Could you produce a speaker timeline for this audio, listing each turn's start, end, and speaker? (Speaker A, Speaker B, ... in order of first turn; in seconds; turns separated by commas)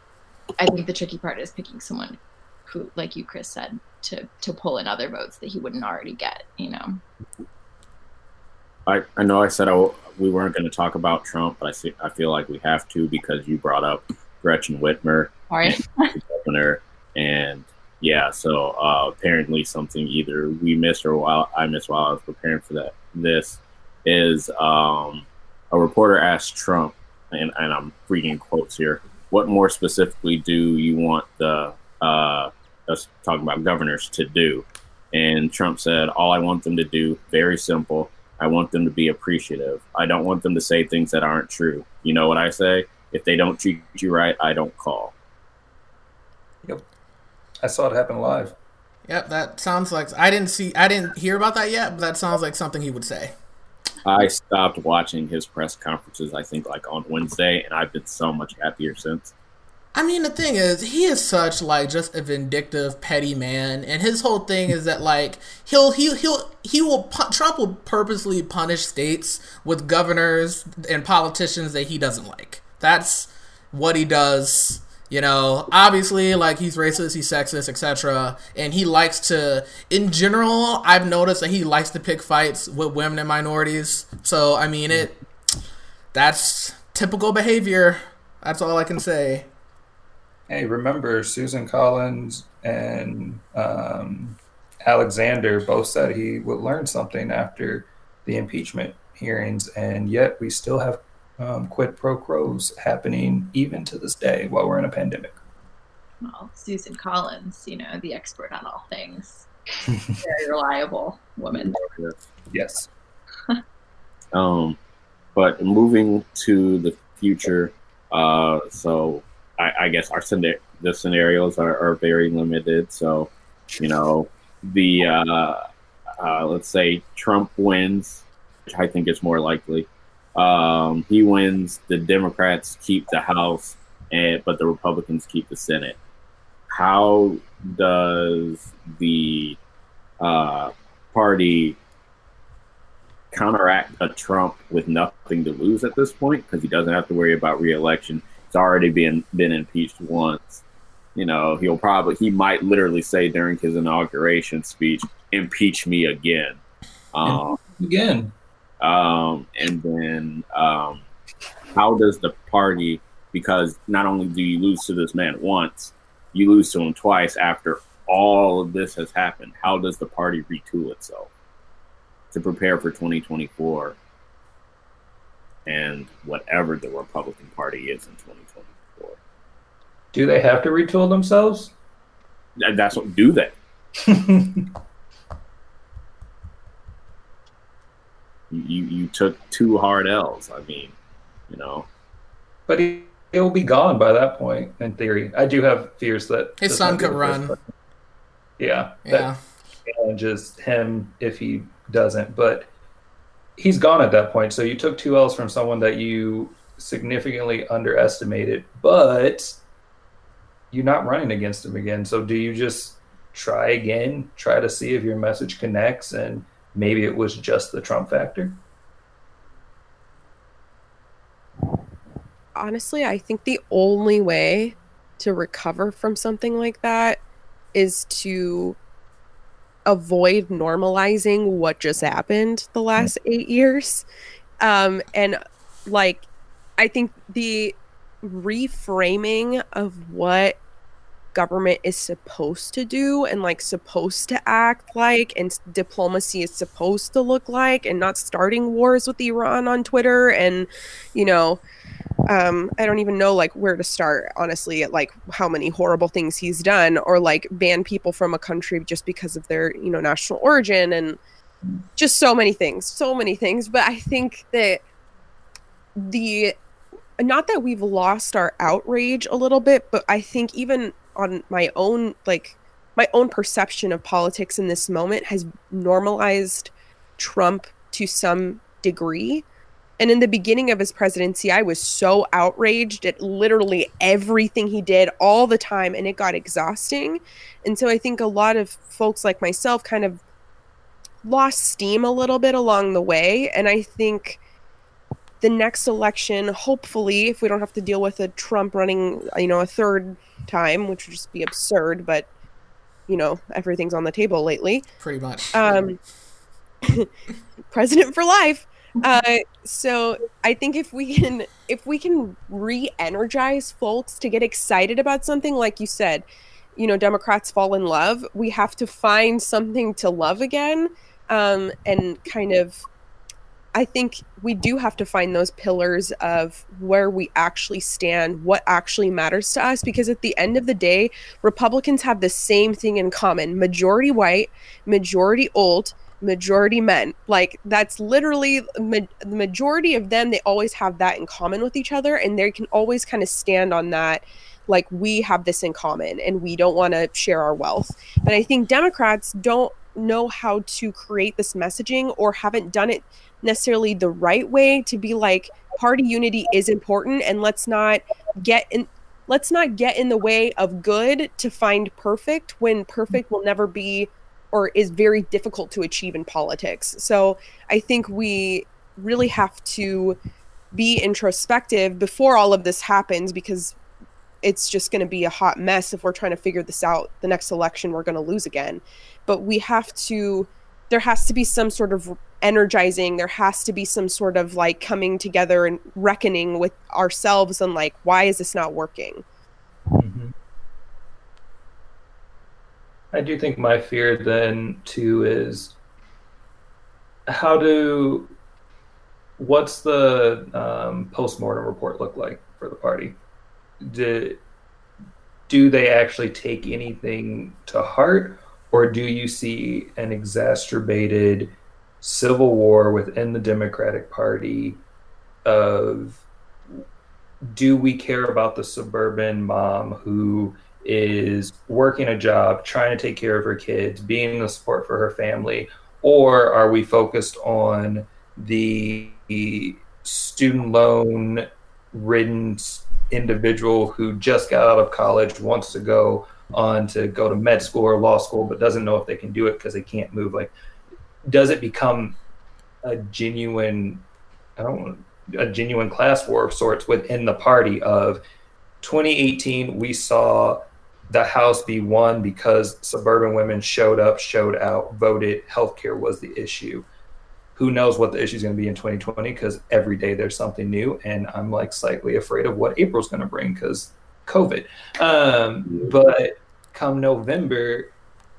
Speaker A: 0.6-7.0, Speaker B: 8.9-45.1, Speaker A: 15.5-16.1, Speaker C: 47.6-48.5, Speaker D: 49.1-53.3, Speaker B: 54.0-59.3, Speaker D: 60.0-85.2, Speaker D: 86.1-89.5, Speaker C: 90.5-105.3, Speaker A: 106.2-111.8, Speaker B: 111.8-112.2, Speaker C: 112.5-112.9, Speaker B: 114.3-114.8, Speaker B: 115.3-125.6, Speaker B: 126.2-136.0, Speaker B: 136.7-139.6, Speaker B: 140.2-141.8, Speaker B: 143.3-150.6, Speaker B: 151.2-156.6, Speaker B: 157.1-157.6, Speaker C: 157.2-158.3, Speaker B: 158.8-161.1, Speaker B: 161.7-171.3, Speaker B: 172.3-174.0, Speaker B: 175.7-179.2, Speaker C: 180.1-181.7, Speaker B: 182.6-183.5, Speaker C: 184.0-184.7, Speaker B: 188.5-190.9, Speaker B: 191.5-191.9, Speaker C: 192.7-197.6, Speaker D: 196.6-197.6, Speaker C: 198.6-199.3, Speaker D: 199.1-199.4, Speaker C: 199.9-202.7, Speaker C: 203.6-209.6, Speaker C: 210.7-218.6, Speaker E: 222.6-227.2, Speaker E: 227.7-228.8, Speaker E: 229.9-234.1, Speaker E: 234.6-236.3, Speaker E: 236.8-240.6, Speaker E: 241.3-251.6, Speaker E: 252.3-261.2, Speaker E: 262.0-264.8, Speaker E: 266.0-266.5, Speaker E: 267.2-279.4, Speaker E: 280.0-290.2, Speaker E: 291.2-294.4, Speaker E: 295.4-302.3, Speaker E: 303.1-304.9, Speaker D: 305.0-305.9, Speaker E: 305.5-306.0, Speaker E: 306.8-307.1, Speaker E: 307.7-322.8, Speaker E: 323.7-370.2, Speaker E: 370.7-373.8, Speaker E: 374.4-389.2, Speaker C: 389.9-390.3, Speaker C: 393.1-395.8, Speaker C: 397.3-398.4, Speaker C: 399.4-403.2, Speaker C: 403.8-404.4, Speaker C: 405.5-414.8, Speaker C: 415.4-416.2, Speaker C: 417.4-440.5, Speaker C: 441.2-442.2, Speaker C: 442.8-444.0, Speaker C: 444.6-448.2, Speaker C: 448.8-456.9, Speaker C: 457.6-467.9